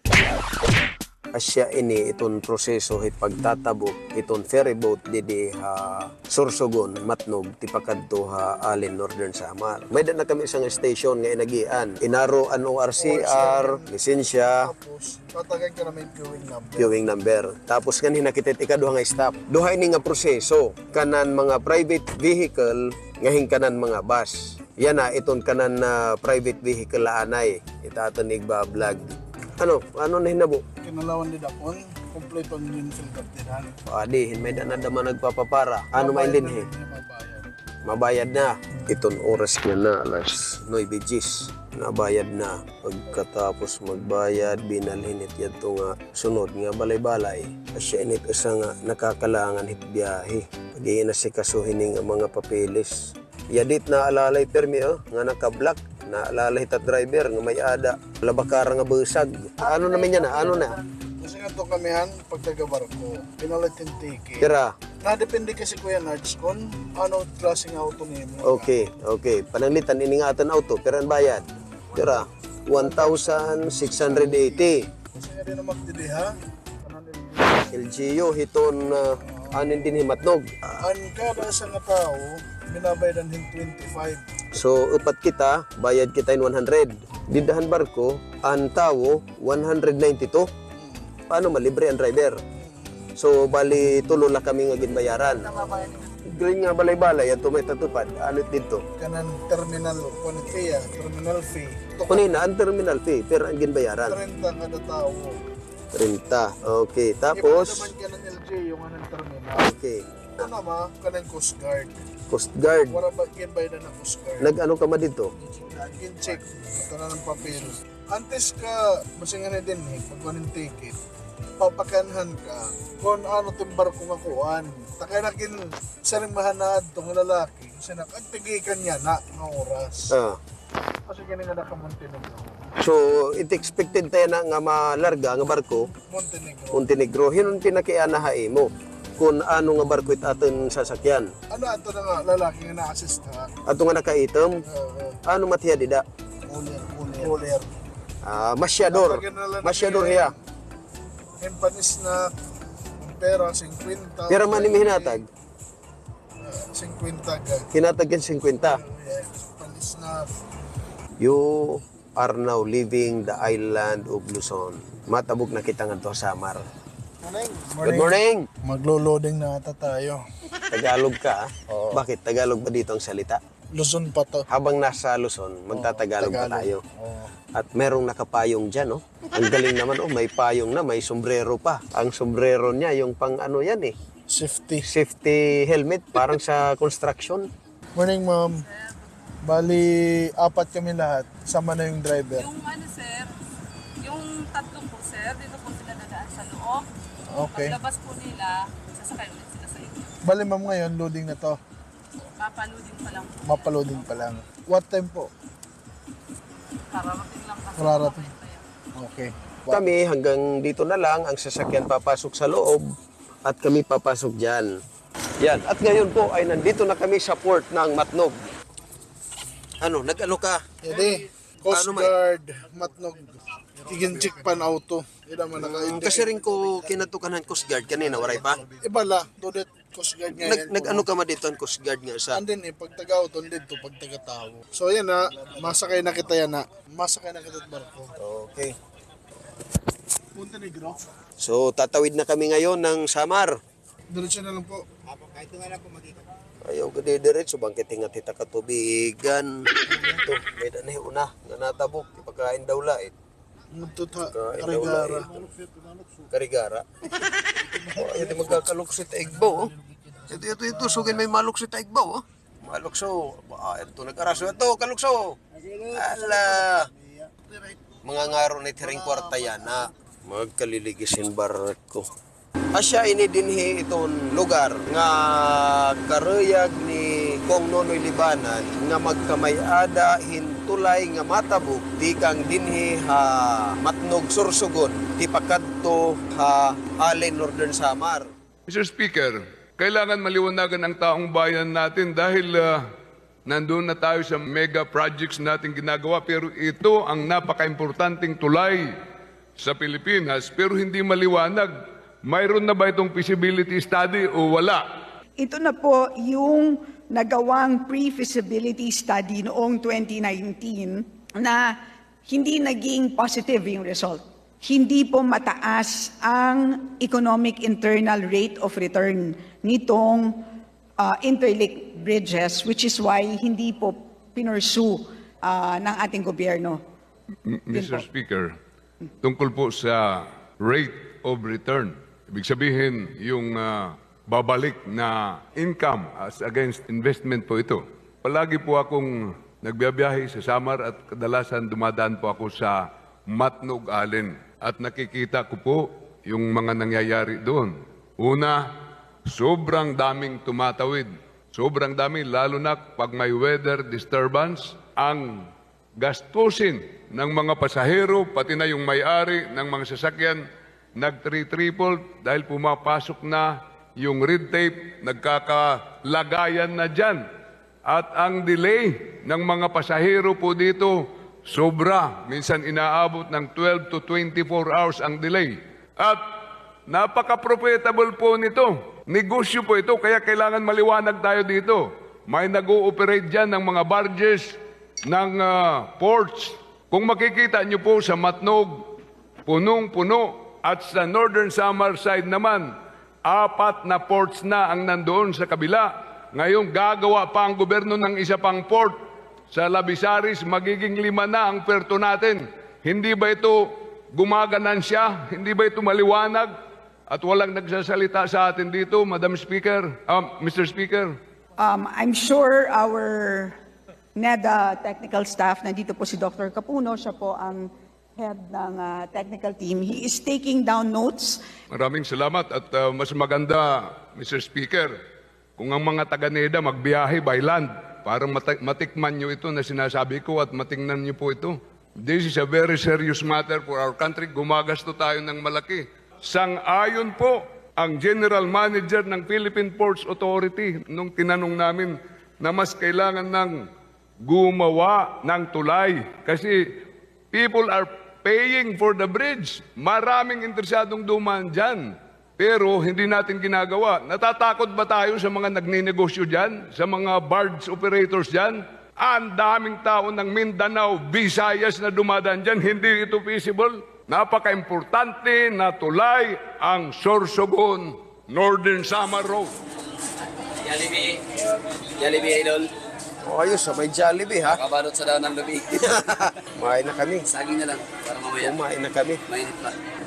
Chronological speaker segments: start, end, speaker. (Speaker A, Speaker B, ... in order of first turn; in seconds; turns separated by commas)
Speaker A: 1.3-14.7, Speaker B: 13.0-13.9, Speaker B: 14.6-16.9, Speaker A: 16.8-30.6, Speaker B: 30.8-33.8, Speaker A: 33.9-36.7, Speaker B: 35.9-37.5, Speaker A: 37.8-60.8, Speaker B: 61.2-64.5, Speaker A: 64.4-64.7, Speaker B: 65.0-68.7, Speaker A: 68.4-74.8, Speaker B: 72.7-73.4, Speaker B: 74.0-76.3, Speaker B: 76.8-77.8, Speaker A: 77.7-80.5, Speaker B: 79.3-79.6, Speaker B: 80.8-84.2, Speaker A: 84.5-90.5, Speaker B: 90.7-91.1, Speaker A: 91.3-92.4, Speaker B: 92.5-93.1, Speaker A: 93.2-95.7, Speaker B: 95.5-95.9, Speaker A: 96.3-98.8, Speaker B: 99.0-102.3, Speaker A: 102.1-104.2, Speaker B: 104.1-105.3, Speaker A: 105.9-107.9, Speaker B: 107.3-109.7, Speaker A: 109.6-110.0, Speaker B: 110.4-112.0, Speaker A: 112.3-113.0, Speaker B: 112.9-114.5, Speaker A: 114.4-115.3, Speaker B: 115.6-121.0, Speaker B: 121.6-130.1, Speaker A: 130.1-130.4, Speaker B: 131.1-132.6, Speaker A: 132.8-135.9, Speaker B: 136.1-136.8, Speaker A: 136.7-141.3, Speaker B: 141.5-143.6, Speaker A: 143.7-144.6, Speaker B: 144.6-145.2, Speaker A: 145.2-146.0, Speaker B: 146.5-147.7, Speaker A: 148.2-150.3, Speaker B: 148.8-150.4, Speaker B: 151.4-152.3, Speaker B: 153.0-155.2, Speaker A: 154.3-155.2, Speaker B: 156.4-157.7, Speaker A: 157.7-158.8, Speaker B: 158.6-160.3, Speaker A: 161.2-166.6, Speaker B: 167.2-170.2, Speaker A: 167.8-168.5, Speaker A: 170.7-173.4, Speaker B: 171.7-172.0, Speaker B: 173.7-174.5, Speaker A: 174.5-176.8, Speaker B: 175.7-177.3, Speaker A: 177.5-183.9, Speaker B: 184.3-184.9, Speaker A: 184.9-187.4, Speaker B: 187.9-188.6, Speaker B: 189.4-192.5, Speaker C: 192.3-193.3, Speaker C: 194.0-196.8, Speaker B: 197.3-197.8, Speaker C: 197.5-200.1, Speaker B: 200.2-201.6, Speaker C: 202.4-204.1, Speaker B: 203.4-205.3, Speaker C: 206.9-208.6, Speaker B: 207.7-208.3, Speaker B: 208.9-209.8, Speaker A: 209.7-212.8, Speaker A: 213.4-214.7, Speaker A: 215.4-218.3, Speaker A: 219.8-220.6, Speaker B: 220.8-226.3, Speaker A: 221.7-222.1, Speaker A: 225.6-228.6, Speaker B: 228.1-231.0, Speaker A: 230.3-232.4, Speaker B: 232.3-238.1, Speaker A: 238.2-238.7, Speaker B: 240.3-241.0, Speaker A: 241.4-243.5, Speaker B: 244.1-244.8, Speaker A: 246.7-253.1, Speaker B: 253.7-255.3, Speaker A: 254.3-255.5, Speaker A: 256.3-256.8, Speaker A: 257.7-259.7, Speaker B: 257.8-258.1, Speaker A: 260.3-265.4, Speaker A: 265.9-266.9, Speaker A: 268.0-272.1, Speaker A: 272.7-288.3, Speaker D: 288.7-292.8, Speaker D: 293.5-298.9, Speaker D: 299.6-301.7, Speaker D: 302.3-304.8, Speaker E: 305.4-320.4, Speaker E: 321.0-326.8, Speaker D: 327.5-328.5, Speaker E: 327.7-328.1, Speaker D: 329.2-348.6, Speaker D: 349.2-355.4, Speaker D: 356.0-360.4, Speaker D: 361.0-367.2, Speaker D: 367.9-376.2, Speaker D: 376.9-384.5, Speaker D: 385.1-388.8, Speaker D: 389.4-392.7, Speaker D: 393.3-398.9, Speaker D: 399.5-406.5, Speaker D: 407.1-411.1, Speaker E: 411.6-413.6, Speaker E: 414.1-421.4, Speaker D: 421.7-424.9, Speaker D: 425.6-443.5, Speaker D: 444.2-446.6, Speaker D: 447.3-469.6, Speaker F: 470.7-471.2, Speaker F: 472.0-472.7, Speaker A: 473.2-474.6, Speaker F: 474.5-475.8, Speaker A: 475.7-477.3, Speaker F: 477.3-478.6, Speaker A: 478.3-479.2, Speaker F: 479.3-479.7